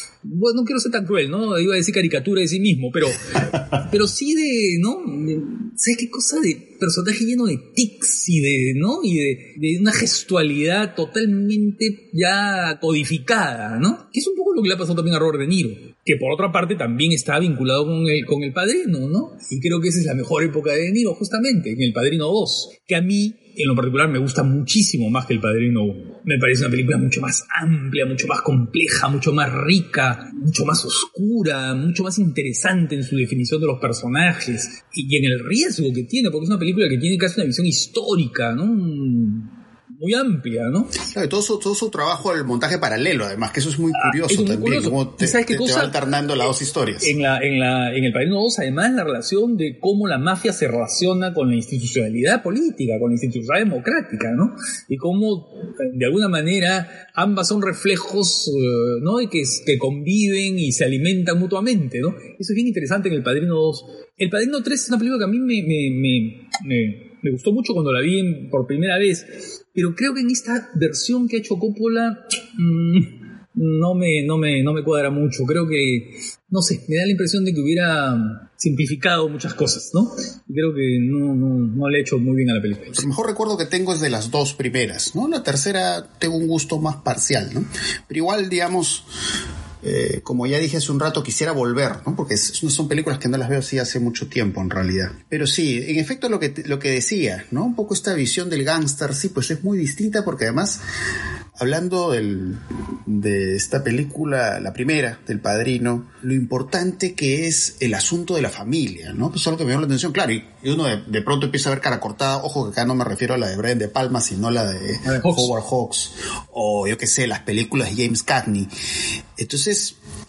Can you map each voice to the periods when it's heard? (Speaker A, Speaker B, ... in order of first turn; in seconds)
Speaker A: 0.2-41.0, 43.9-46.1, 47.0-83.1, 115.0-115.5
Speaker B: 41.1-47.1, 82.9-89.0, 89.8-100.8, 101.6-118.7, 119.4-120.0